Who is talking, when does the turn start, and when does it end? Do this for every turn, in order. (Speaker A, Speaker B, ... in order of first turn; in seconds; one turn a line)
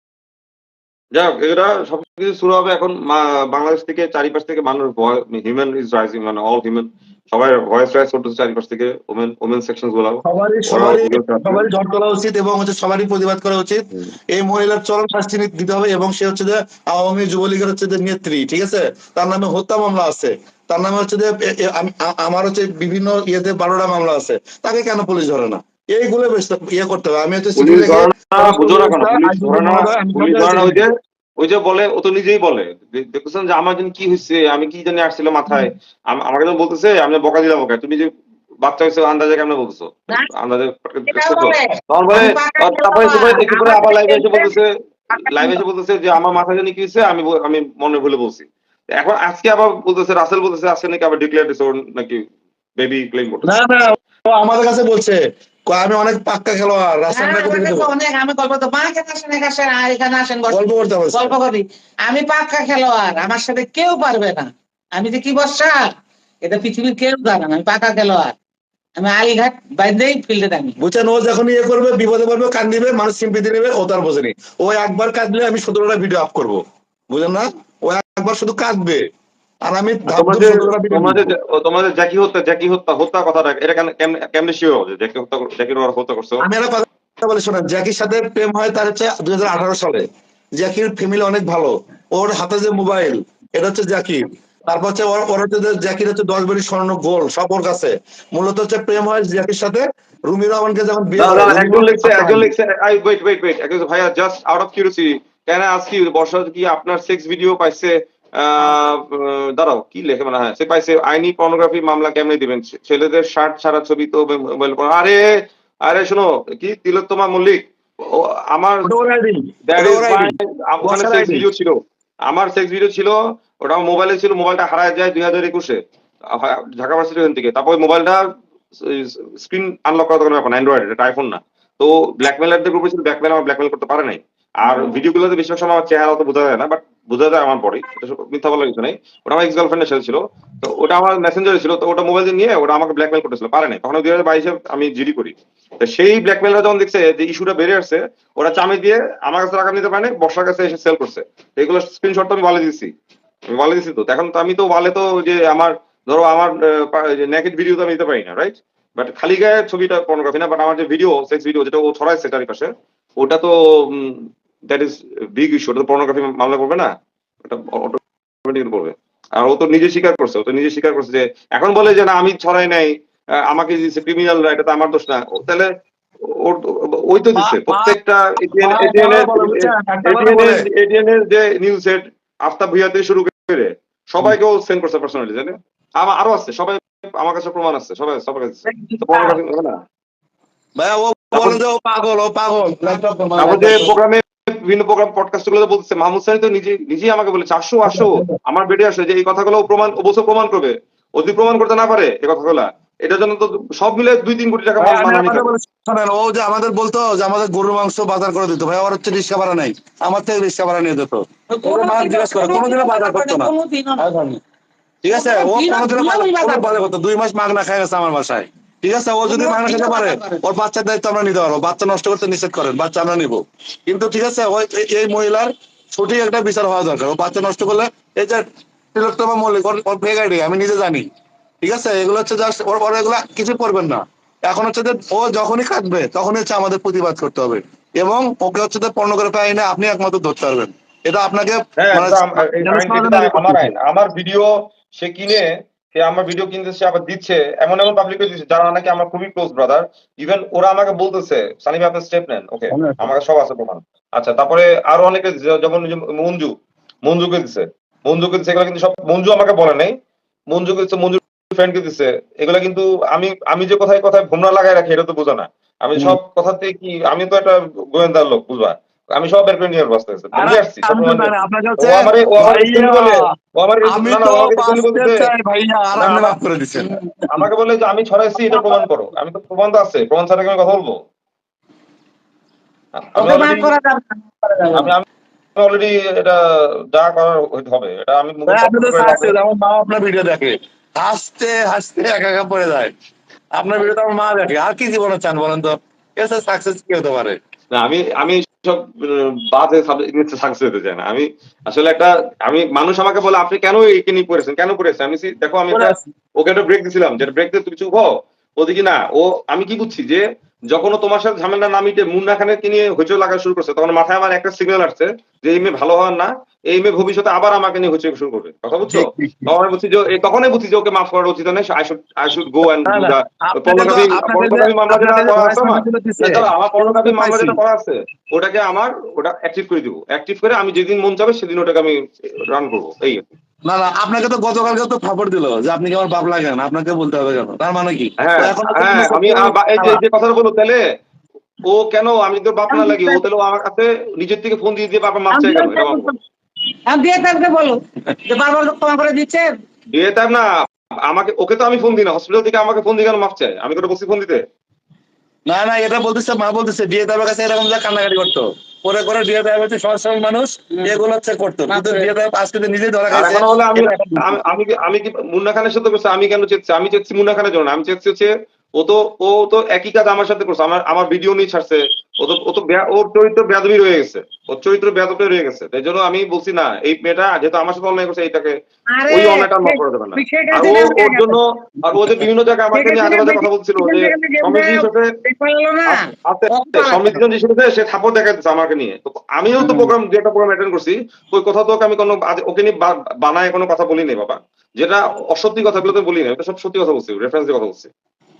Speaker A: 1.1-11.7
Speaker B: 10.2-30.8
Speaker A: 27.6-38.1
Speaker A: 38.6-52.2
Speaker C: 41.1-44.5
Speaker C: 45.1-45.6
Speaker A: 52.8-53.7
Speaker B: 53.4-57.9
Speaker C: 57.1-65.9
Speaker B: 60.5-61.4
Speaker C: 66.4-68.3
Speaker C: 69.0-70.8
Speaker B: 70.8-79.0
Speaker B: 79.6-81.3
Speaker A: 80.1-86.5
Speaker B: 86.4-90.0
Speaker B: 90.6-102.5
Speaker A: 101.2-115.2
Speaker A: 115.9-118.9
Speaker B: 118.8-121.5
Speaker A: 119.7-121.8
Speaker A: 122.3-125.8
Speaker A: 126.3-128.2
Speaker A: 128.8-152.9
Speaker A: 153.5-166.9
Speaker A: 167.4-172.9
Speaker A: 173.4-175.7
Speaker A: 176.4-189.7
Speaker B: 177.4-180.6
Speaker C: 188.7-189.4
Speaker B: 190.8-193.9
Speaker A: 191.3-191.6
Speaker A: 193.4-205.5
Speaker B: 197.9-198.4
Speaker B: 204.8-214.4
Speaker C: 211.5-214.0
Speaker B: 215.0-231.1
Speaker C: 215.1-216.7
Speaker C: 219.2-220.4
Speaker B: 231.6-243.7
Speaker A: 241.8-256.5
Speaker B: 252.7-253.1
Speaker A: 257.0-259.9
Speaker A: 260.5-275.3
Speaker B: 270.4-273.3
Speaker B: 273.9-277.0
Speaker A: 275.9-276.4
Speaker C: 276.8-277.3
Speaker A: 277.3-281.0
Speaker C: 278.4-278.8
Speaker A: 283.0-283.7
Speaker C: 283.2-284.9
Speaker A: 284.7-285.0
Speaker A: 285.6-289.4
Speaker B: 288.5-292.9
Speaker B: 293.6-297.4
Speaker A: 297.7-333.2
Speaker B: 305.7-306.0
Speaker B: 318.9-319.5
Speaker B: 322.8-327.6
Speaker B: 333.6-340.0
Speaker A: 338.2-340.8
Speaker A: 341.7-346.1
Speaker C: 342.7-343.2
Speaker C: 345.3-346.2
Speaker C: 346.9-349.5
Speaker A: 349.9-350.5
Speaker A: 351.1-354.4
Speaker B: 355.5-364.4
Speaker C: 361.7-362.1
Speaker A: 363.1-378.6
Speaker C: 378.9-381.4
Speaker A: 379.1-385.1
Speaker C: 382.7-387.2
Speaker A: 385.9-397.9
Speaker C: 389.6-389.9